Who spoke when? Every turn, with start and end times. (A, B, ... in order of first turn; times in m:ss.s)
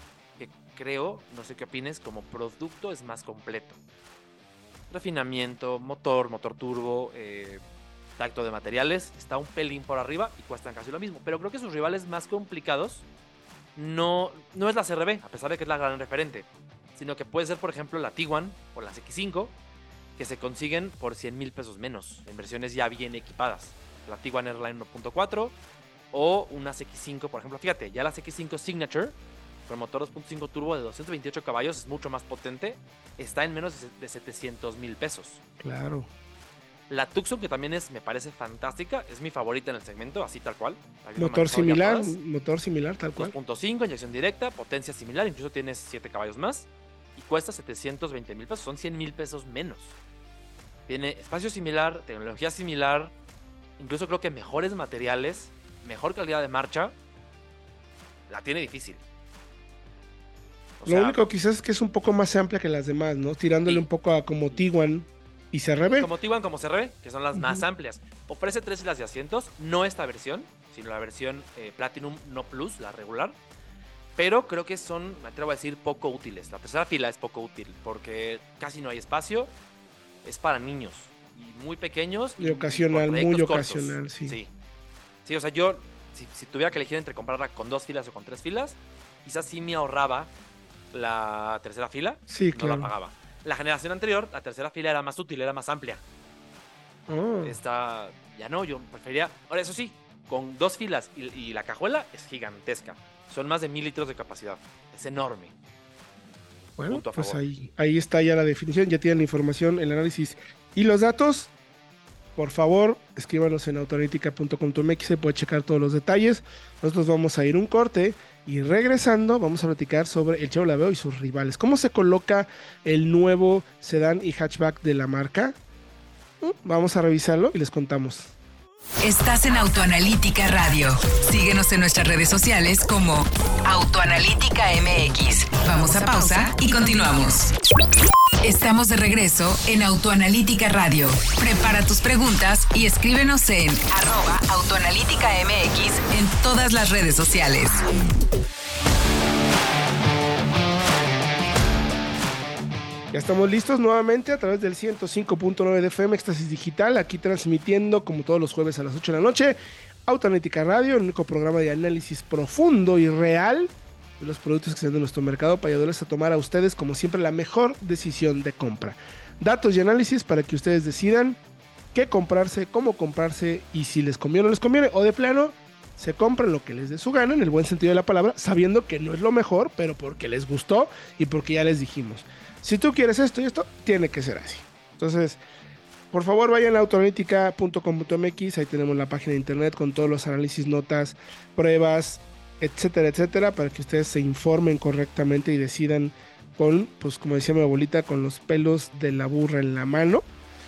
0:00.4-0:03.8 A
0:04.9-0:07.6 A
0:08.2-0:13.0 A
0:13.8-0:19.6 A
0:20.2-0:25.6 A
0:26.1-0:29.2 A
0:29.7-0:35.4 A
0:35.6-0:36.1 B
0:36.9-0:42.2 A
0:41.2-0:43.4 B
0:43.2-0:50.0 A
0:50.9-0:53.1 A
0:53.8-0:57.0 A
0:58.3-0:59.0 A
1:00.8-1:01.2 A
1:00.9-1:06.1 B
1:05.8-1:13.4 A
1:07.4-1:07.6 B
1:14.2-1:19.5 A
1:20.2-1:24.5 A
1:22.4-1:24.4 B
1:25.2-1:30.3 A
1:30.9-1:36.0 A
1:32.3-1:32.9 B
1:37.1-1:37.6 B
1:37.4-1:45.5 A
1:46.8-1:51.5 B
1:46.9-1:47.4 A
1:52.4-2:05.6 B
2:06.4-2:08.3 B
2:09.0-2:17.5 C
2:18.4-2:27.8 C
2:33.1-2:51.4 B
2:51.9-3:05.4 B
3:06.1-3:20.3 B